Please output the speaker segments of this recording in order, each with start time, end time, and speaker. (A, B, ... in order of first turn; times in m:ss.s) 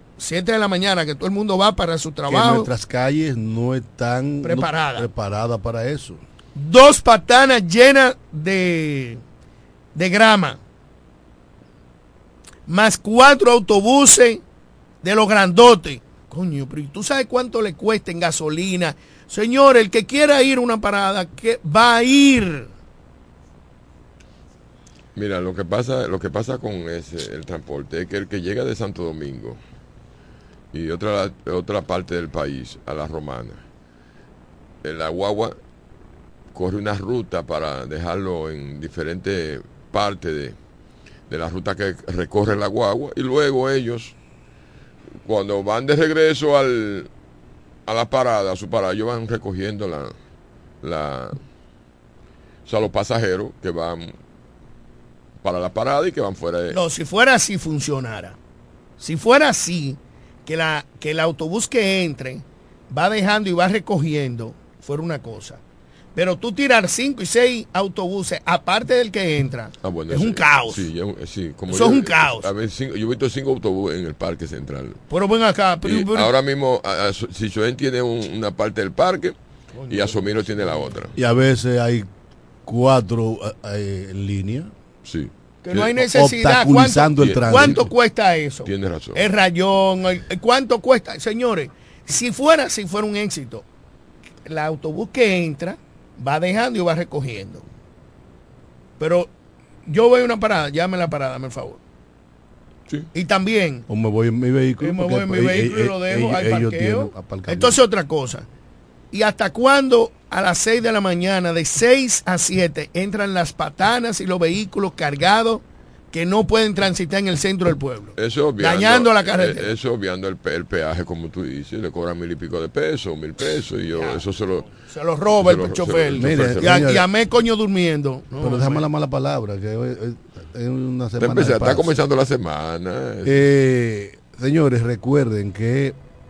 0:00.2-0:02.7 A
0:02.2-0:06.2 B
0:04.4-0:05.1 A
0:06.5-0:09.2 A
0:09.9-0:10.6 A
0:12.7-0:14.4 A
0:15.0-0:22.7 A
0:25.2-0:29.6 C
0:30.7-0:33.6 C
0:34.8-0:35.6 C
0:36.5-0:40.6 C
0:41.3-0:44.1 C
0:45.2-0:47.1 C
0:47.9-0:50.1 C
0:50.8-0:51.4 C
0:52.6-0:54.1 C
0:55.4-0:56.8 C
0:56.7-0:58.4 A
0:59.0-1:05.6 A
1:06.1-1:10.8 A
1:09.8-1:15.0 C
1:11.7-1:12.5 A
1:15.1-1:16.3 A
1:15.8-1:19.3 C
1:19.7-1:20.2 A
1:19.9-1:21.1 C
1:21.2-1:22.1 B
1:22.6-1:24.7 B
1:25.0-1:25.8 C
1:25.6-1:33.6 A
1:25.9-1:27.8 B
1:27.2-1:27.8 C
1:28.6-1:29.2 C
1:34.4-1:37.6 A
1:39.0-1:39.3 A
1:39.8-1:41.8 A
1:43.1-1:43.8 A
1:43.9-1:47.8 B
1:44.8-1:48.5 A
1:49.1-1:59.7 A
1:58.2-2:04.7 C
2:04.9-2:08.8 A
2:05.4-2:06.9 C
2:06.2-2:07.0 B
2:08.4-2:11.9 B
2:11.2-2:13.4 C
2:13.2-2:16.0 B